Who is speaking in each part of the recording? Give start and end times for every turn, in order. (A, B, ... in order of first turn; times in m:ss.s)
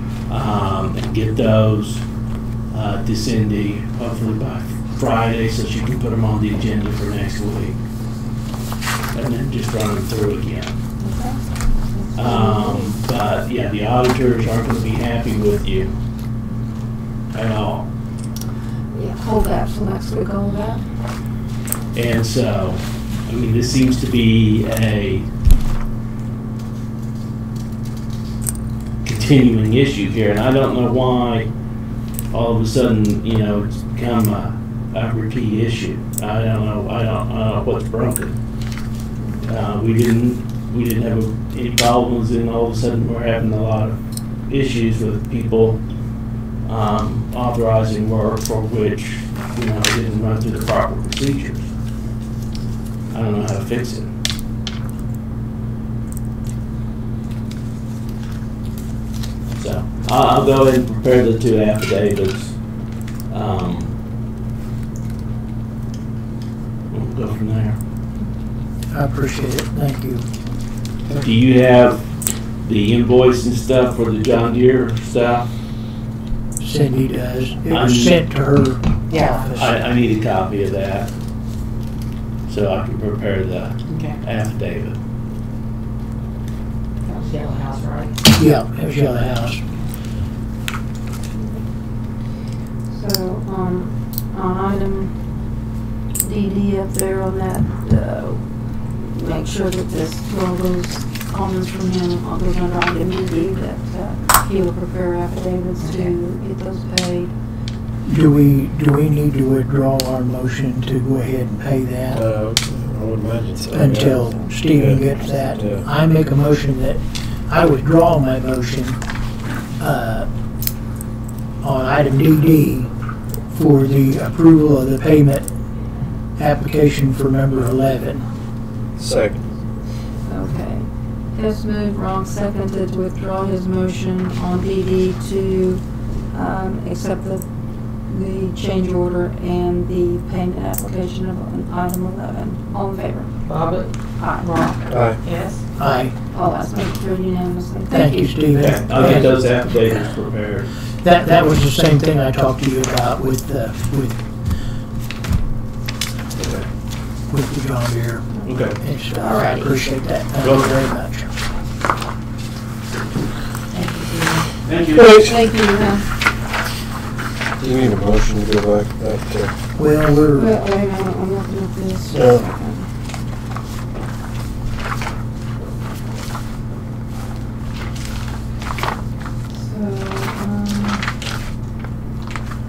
0:00.3-0:02.0 A
0:02.7-0:07.8 A
0:09.1-0:10.8 A
0:11.0-0:12.9 B
0:12.1-0:15.9 A
0:17.3-0:17.9 A
0:18.9-0:20.8 B
0:21.9-0:25.3 A
0:29.0-0:31.5 A
0:32.3-0:38.4 A
0:39.4-0:45.8 A
0:46.6-0:51.7 A
0:53.1-0:54.1 A
0:59.5-1:02.5 A
1:03.3-1:03.9 A
1:06.9-1:07.8 A
1:08.9-1:10.2 C
1:11.2-1:12.1 A
1:12.6-1:15.5 A
1:16.6-1:19.7 C
1:17.7-1:18.2 A
1:19.1-1:19.5 D
1:19.4-1:21.1 A
1:22.5-1:25.0 A
1:23.9-1:24.2 D
1:27.0-1:28.1 D
1:28.4-1:29.6 C
1:32.9-1:35.1 B
1:36.2-1:47.3 B
1:45.8-1:46.1 D
1:48.0-1:52.2 C
1:52.1-1:55.8 E
1:53.7-1:59.0 C
1:59.8-2:00.3 C
2:01.6-2:02.9 C
2:03.5-2:05.5 C
2:06.4-2:08.2 C
2:09.0-2:09.5 E
2:10.2-2:17.4 B
2:18.1-2:23.4 B
2:23.4-2:25.6 D
2:24.2-2:24.7 B
2:24.9-2:25.2 E
2:25.8-2:26.1 C
2:26.3-2:28.4 B
2:27.9-2:29.3 C
2:28.5-2:30.7 A
2:31.0-2:34.2 C
2:36.4-2:36.6 A
2:37.3-2:41.3 C
2:38.4-2:38.8 A
2:39.1-2:39.7 B
2:40.4-2:40.8 A
2:43.7-2:44.5 D
2:44.6-2:45.2 A
2:45.0-2:45.3 E
2:45.0-2:46.0 B
2:47.6-2:49.5 E
2:49.8-2:50.5 C
2:50.3-2:52.9 B
2:52.1-2:52.5 E
2:59.5-3:01.0 B